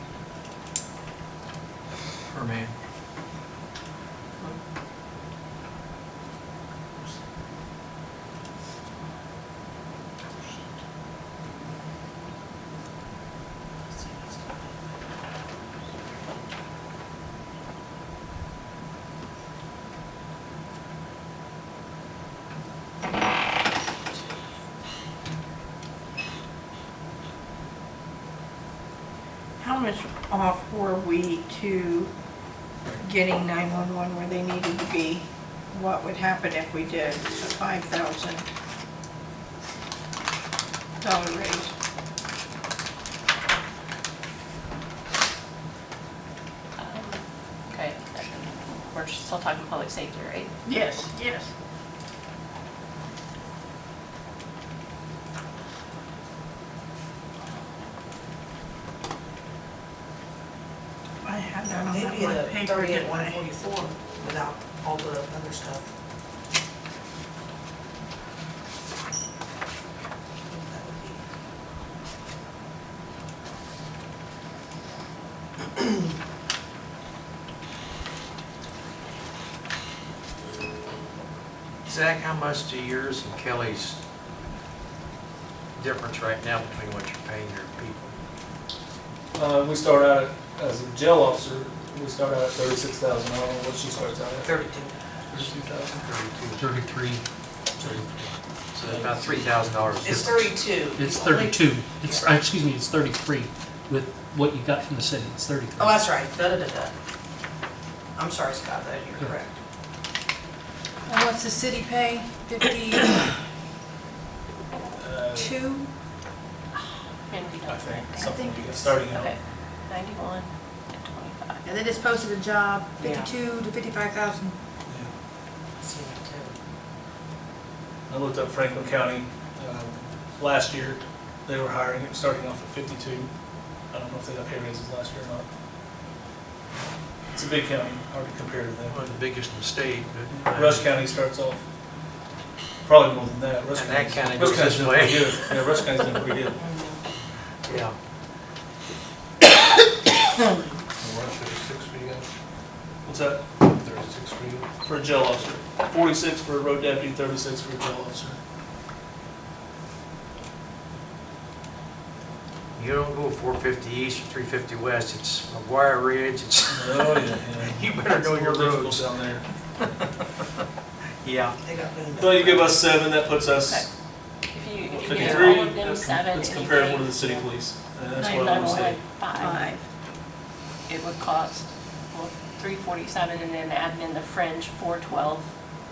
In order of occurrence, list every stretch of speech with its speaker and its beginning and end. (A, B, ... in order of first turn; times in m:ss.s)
0:02.3-0:02.7 A
0:29.6-0:32.1 B
0:33.0-0:38.4 B
0:41.0-0:41.7 B
0:46.8-0:50.5 C
0:50.6-0:51.5 B
1:01.2-1:03.4 B
1:01.8-1:05.9 D
1:10.5-1:11.2 D
1:21.9-1:24.0 A
1:25.8-1:28.2 A
1:29.4-1:34.6 E
1:34.4-1:35.0 D
1:35.3-1:36.0 E
1:35.9-1:36.6 A
1:36.6-1:37.2 F
1:37.8-1:40.6 A
1:38.8-1:39.6 E
1:40.0-1:42.4 D
1:41.0-1:46.0 F
1:45.8-1:46.9 D
1:48.2-1:49.6 D
1:51.1-1:53.3 G
1:55.0-1:55.6 E
1:55.3-1:55.9 G
1:57.3-1:58.3 C
1:57.7-1:59.4 E
1:58.2-1:59.0 G
1:59.1-2:01.6 C
2:01.6-2:04.6 G
2:03.0-2:03.3 D
2:04.9-2:05.1 E
2:05.8-2:06.6 D
2:08.1-2:13.3 E
2:13.9-2:15.5 E
2:17.3-2:19.1 E
2:18.9-2:20.9 A
2:20.3-2:21.6 E
2:22.8-2:26.6 E
2:23.7-2:25.7 A
2:26.6-2:27.0 D
2:27.6-2:27.9 A
2:31.0-2:32.3 E
2:33.0-2:38.4 E
2:42.8-2:49.1 A
2:46.7-2:49.4 E
2:51.2-2:51.6 A
2:51.6-2:52.8 D
2:52.1-2:53.9 E
2:54.5-2:57.2 C
2:54.9-2:59.0 E
2:55.1-2:55.9 D
2:57.2-2:57.5 D
2:58.2-2:59.7 C
2:59.3-2:59.8 B
3:00.9-3:05.5 C